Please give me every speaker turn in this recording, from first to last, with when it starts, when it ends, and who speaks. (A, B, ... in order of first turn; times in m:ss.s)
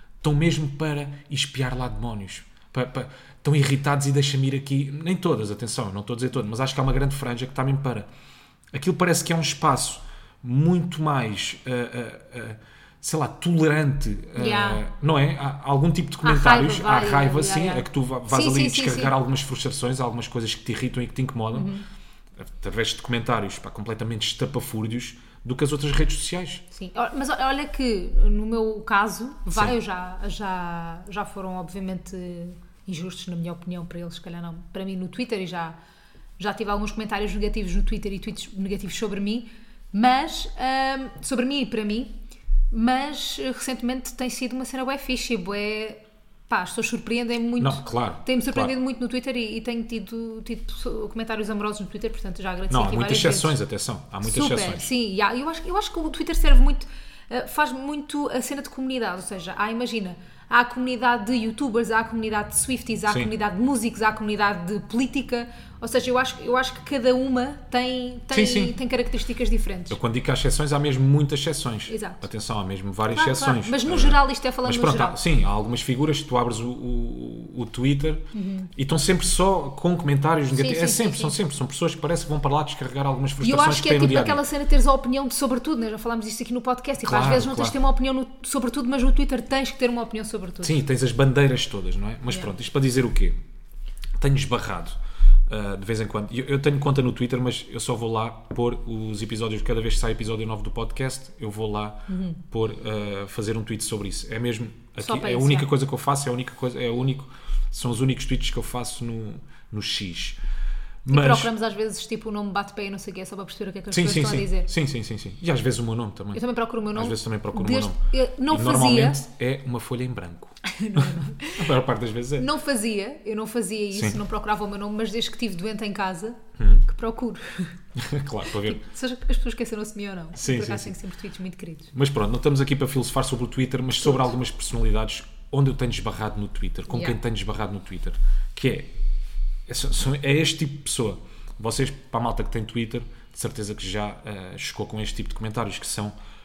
0:00.2-0:08.1 A
0:08.7-0:21.7 A
0:14.4-0:14.8 B
0:16.2-0:19.2 B
0:21.5-0:21.9 B
0:22.4-0:26.6 A
0:26.7-0:35.8 B
0:36.4-0:42.1 B
0:42.7-0:53.6 B
0:47.6-0:48.7 A
0:52.7-0:54.9 A
0:54.2-1:10.0 B
1:08.3-1:08.7 A
1:09.9-1:24.4 A
1:11.9-1:12.3 B
1:13.1-1:15.2 B
1:18.3-1:18.7 B
1:20.5-1:21.4 B
1:23.4-1:30.8 B
1:27.0-1:27.8 A
1:30.6-1:33.4 A
1:34.2-1:35.0 A
1:35.5-1:50.4 A
1:42.1-1:42.4 B
1:45.0-1:45.7 B
1:51.0-1:51.5 A
1:51.1-1:54.7 B
1:53.9-1:56.4 A
1:56.3-1:59.2 B
1:56.9-2:02.5 A
2:00.6-2:01.7 B
2:02.4-2:07.8 B
2:03.9-2:04.2 A
2:06.6-2:06.8 A
2:08.0-2:08.8 A
2:08.4-2:11.9 B
2:10.4-2:11.0 A
2:11.9-2:18.9 A
2:14.0-2:14.3 B
2:16.9-2:17.2 B
2:19.7-2:26.1 A